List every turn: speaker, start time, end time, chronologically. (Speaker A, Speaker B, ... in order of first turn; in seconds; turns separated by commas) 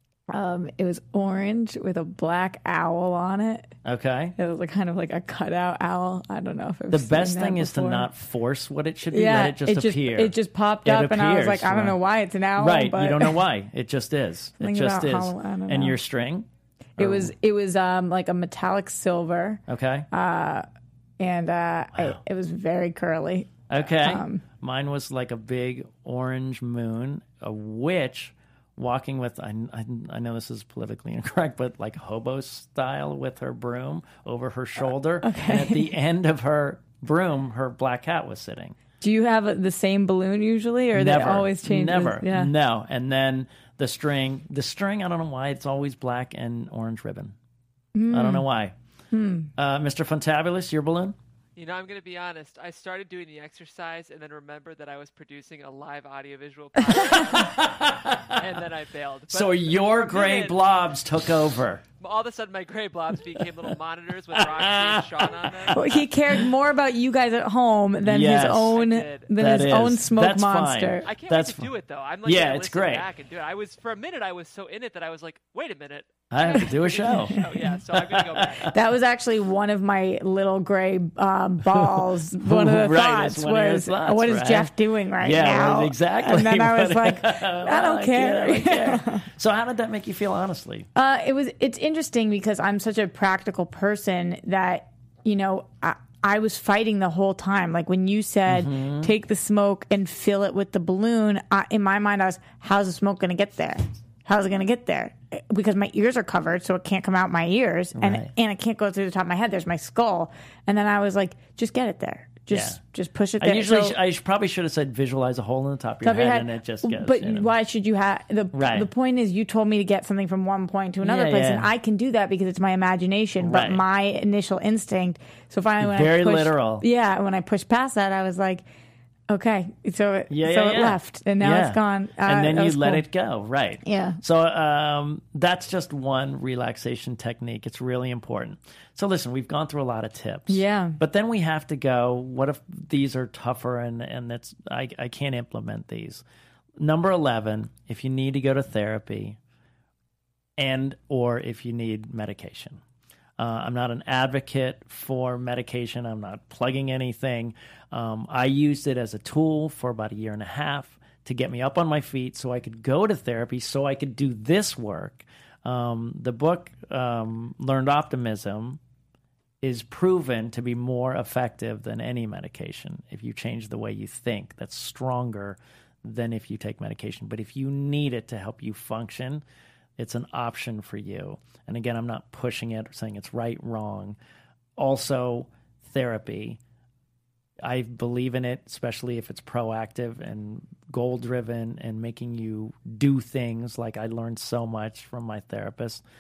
Speaker A: 0.3-3.7, Speaker B: 3.8-4.3, Speaker A: 4.4-8.1, Speaker B: 6.9-12.0, Speaker A: 9.1-13.4, Speaker B: 12.6-17.3, Speaker A: 14.6-16.0, Speaker A: 17.0-20.7, Speaker B: 19.7-20.1, Speaker A: 21.2-24.4, Speaker B: 21.9-22.2, Speaker B: 23.7-38.8, Speaker A: 35.2-35.9, Speaker A: 39.0-42.5, Speaker B: 40.9-47.4, Speaker A: 48.0-48.5, Speaker B: 48.1-48.8, Speaker A: 49.1-49.5, Speaker B: 49.6-51.2, Speaker C: 51.6-57.7, Speaker B: 57.1-58.6, Speaker C: 58.3-60.6, Speaker B: 59.3-61.8, Speaker C: 62.0-65.9, Speaker B: 63.4-63.7, Speaker B: 64.3-66.0, Speaker A: 65.7-71.1, Speaker B: 68.0-68.8, Speaker C: 68.7-69.3, Speaker B: 69.3-71.7, Speaker C: 71.0-78.7, Speaker B: 72.2-73.1, Speaker B: 76.3-77.4, Speaker A: 77.1-77.6, Speaker B: 77.9-78.7, Speaker A: 78.7-89.3, Speaker B: 81.7-90.9, Speaker A: 91.0-114.0, Speaker B: 98.5-99.1, Speaker B: 108.0-108.3, Speaker B: 112.5-112.8, Speaker B: 113.4-117.5, Speaker A: 116.0-128.6, Speaker B: 118.5-118.9, Speaker B: 121.0-121.7, Speaker B: 123.4-123.8, Speaker B: 125.8-126.8, Speaker A: 129.3-133.1, Speaker B: 130.3-146.2, Speaker A: 133.8-134.2, Speaker A: 140.5-141.0, Speaker B: 146.8-149.4, Speaker B: 150.6-152.8, Speaker B: 153.4-168.8, Speaker B: 169.6-179.4, Speaker B: 180.0-184.2, Speaker B: 184.8-186.6, Speaker B: 187.6-196.0